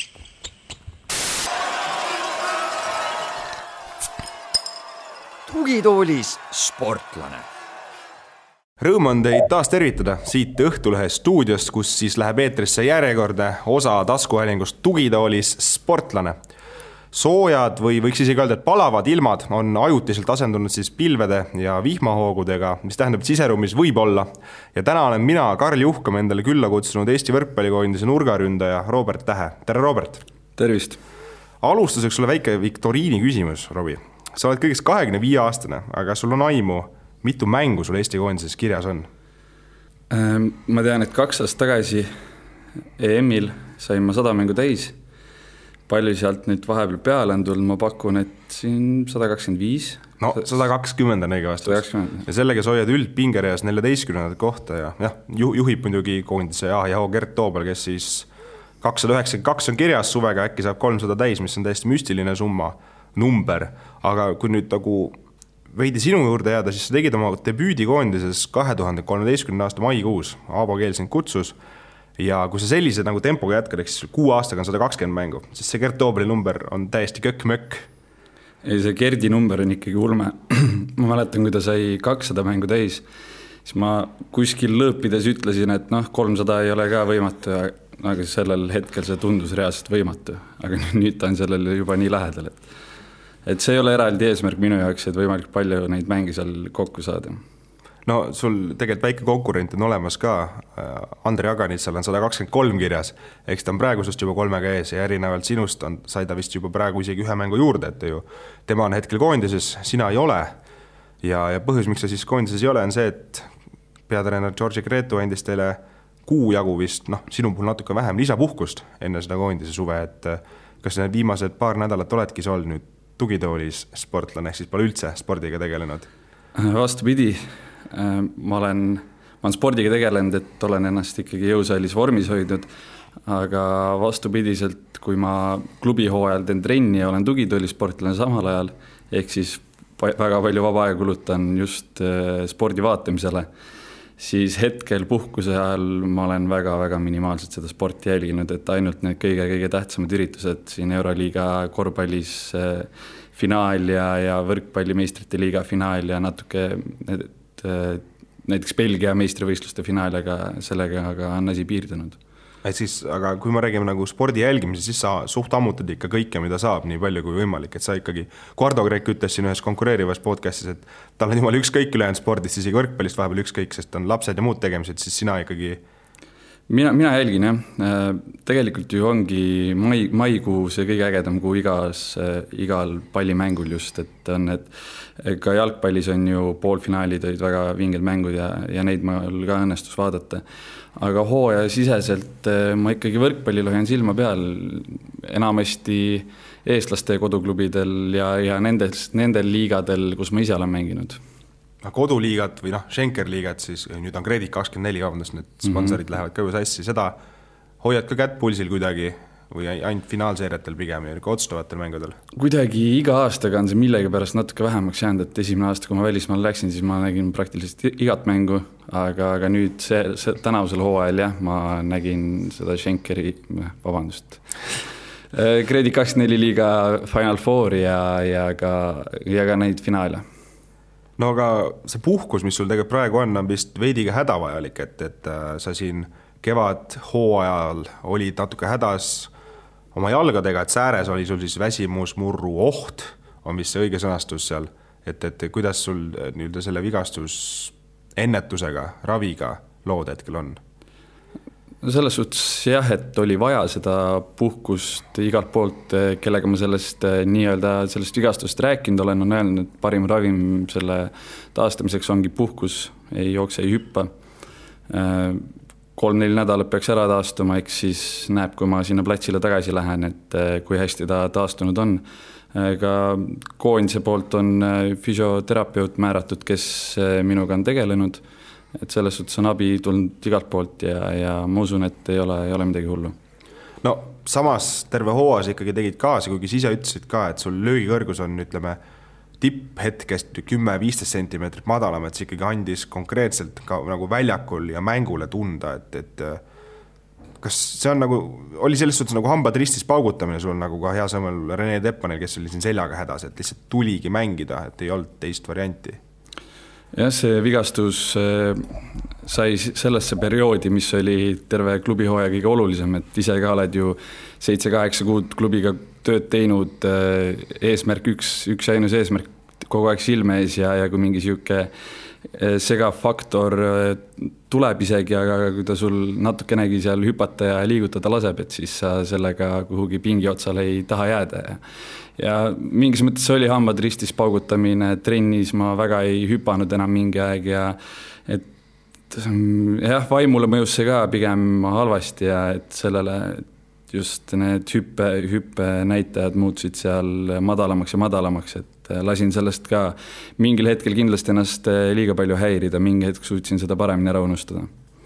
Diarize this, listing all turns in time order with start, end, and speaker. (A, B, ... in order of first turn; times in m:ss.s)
0:05.5-0:07.4 A
0:08.8-0:16.4 B
0:17.1-0:30.2 B
0:30.6-0:31.0 C
0:31.6-0:39.1 B
0:40.1-0:42.1 C
0:43.0-0:44.9 C
0:45.9-0:50.1 C
0:50.2-0:58.3 B
0:51.7-0:52.2 C
0:58.8-1:05.2 B
1:05.7-1:11.6 B
1:12.2-1:17.9 B
1:18.6-1:23.0 C
1:23.6-1:32.6 C
1:33.4-1:37.4 C
1:38.0-1:50.5 B
1:51.2-1:53.5 B
1:54.1-2:06.1 B
2:06.6-2:12.7 C
2:13.2-2:23.5 C
2:24.2-2:42.2 C
2:42.6-2:55.8 B
2:56.7-3:10.4 C
3:11.0-3:21.2 C
3:21.8-3:27.2 B
3:27.8-3:32.2 B
3:32.4-3:44.4 C
3:45.3-3:50.2 C
3:51.2-3:59.3 B
3:59.9-4:10.6 B
4:11.8-4:24.1 C
4:24.9-4:32.0 C
4:32.5-4:38.2 C
4:38.8-4:43.2 C
4:43.8-4:48.8 B
4:49.4-4:56.4 B
4:57.4-5:06.0 B
5:06.9-5:21.7 C
5:22.3-5:31.6 C
5:32.2-5:38.5 C
5:39.1-5:54.7 C